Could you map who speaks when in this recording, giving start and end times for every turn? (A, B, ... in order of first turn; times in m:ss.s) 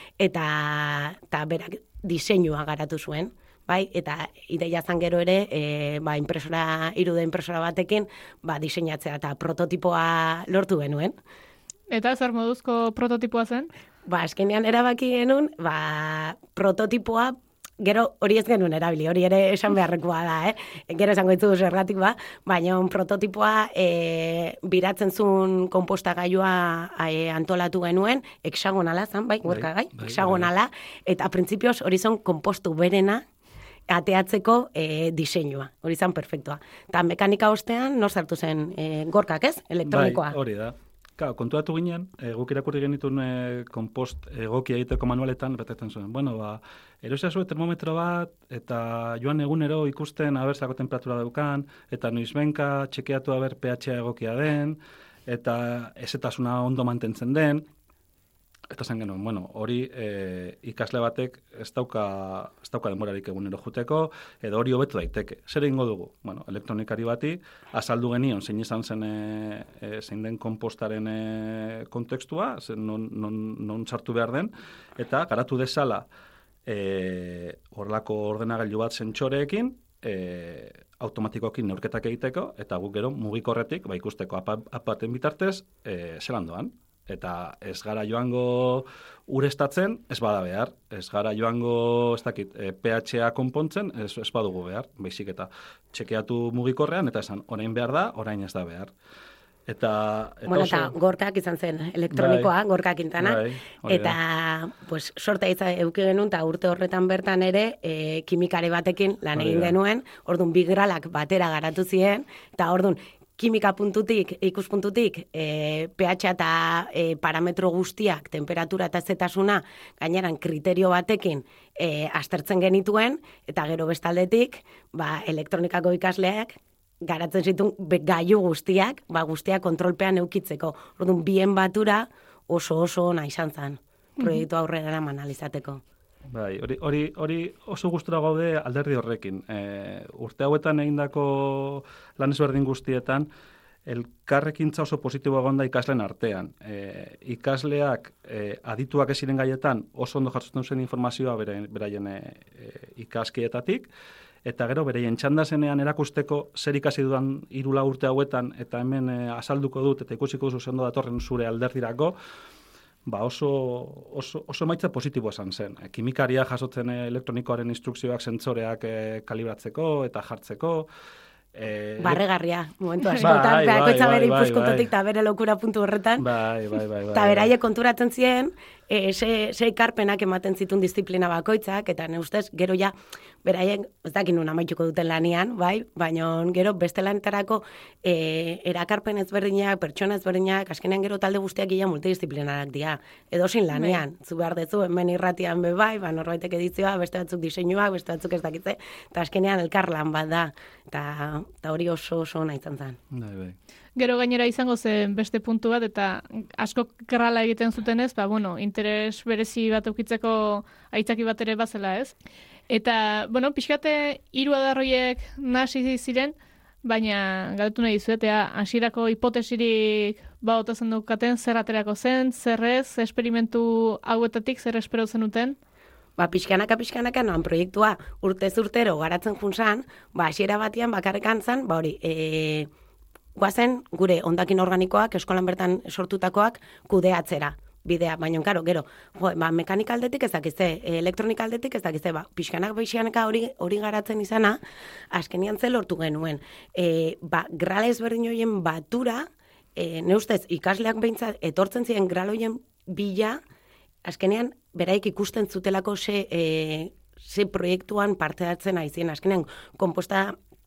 0:00.2-0:11.2 A
0:11.9-0:13.7 B
0:14.0-0:33.2 A
0:29.4-0:30.5 C
0:33.9-0:40.4 A
0:39.8-0:57.7 C
0:58.7-1:16.1 C
1:16.6-1:38.9 C
1:39.7-1:40.9 C
1:40.5-2:15.8 A
1:42.1-1:42.5 C
1:43.2-1:44.2 C
1:49.4-1:49.8 C
2:14.2-2:14.4 B
2:16.3-2:23.3 C
2:23.8-2:33.9 C
2:34.4-2:42.2 C
2:43.0-2:50.9 C
2:51.5-2:52.2 C
2:52.0-2:56.2 A
2:53.2-2:54.9 C
2:56.2-2:57.5 C
2:57.1-3:23.0 A
3:23.1-3:23.6 C
3:24.0-3:32.1 B
3:32.7-3:45.6 B
3:46.2-3:52.7 A
3:53.4-4:13.4 A
4:14.0-4:20.4 A